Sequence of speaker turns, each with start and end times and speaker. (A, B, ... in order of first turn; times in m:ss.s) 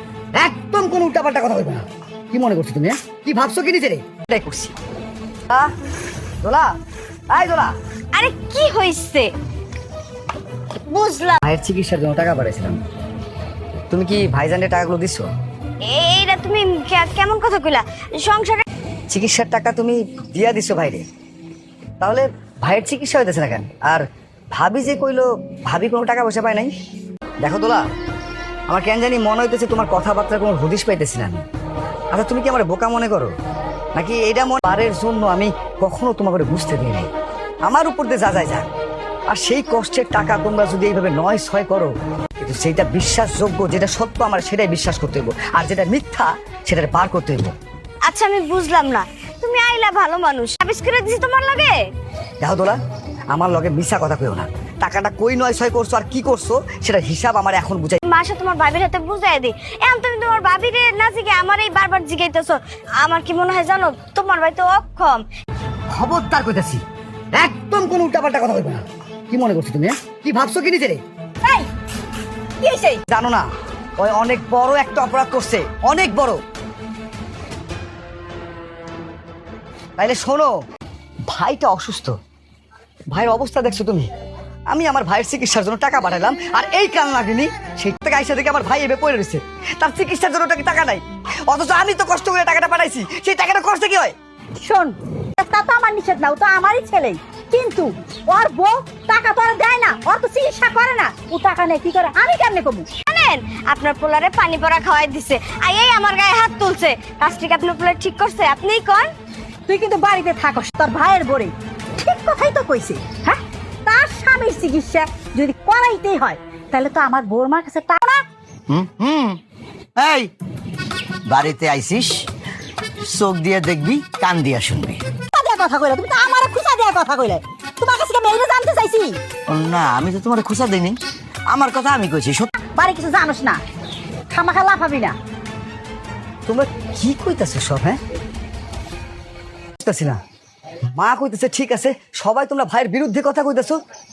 0:00.4-0:04.7 A
0:07.3-0:07.7 A
0:08.1-0:09.3 B
0:10.9-0:11.4 B
0:11.4-0:12.8 A
0:13.9-0:15.3 A
0:15.9-0:18.6 B
0:19.1-0:21.0 A
0:22.0-0:26.7 A
0:27.4-0:27.8 A
0:28.7-0:31.4 A
0:32.1-0:33.3 A
0:34.0-0:37.1 A
0:37.6-0:38.7 A
0:39.3-0:47.5 A
0:48.0-0:51.8 B
0:52.4-0:52.8 A
0:53.3-0:58.0 A
0:58.1-1:05.2 B
1:05.9-1:06.8 A
1:07.4-1:11.0 A
1:11.4-1:11.7 C
1:12.6-1:13.0 C
1:13.1-1:13.5 A
1:14.0-1:16.4 A
1:20.0-1:20.5 A
1:21.3-1:22.2 A
1:23.1-1:24.1 A
1:24.7-1:34.1 A
1:34.6-1:42.9 C
1:43.0-1:49.1 B
1:49.7-1:58.2 C
1:58.7-1:59.4 D
2:00.0-2:00.3 D
2:01.3-2:02.2 D
2:03.0-2:05.0 D
2:05.3-2:09.2 C
2:09.5-2:11.0 D
2:11.5-2:12.5 D
2:12.6-2:13.6 C
2:14.3-2:15.2 C
2:16.5-2:18.0 A
2:19.8-2:20.2 A
2:20.9-2:23.8 A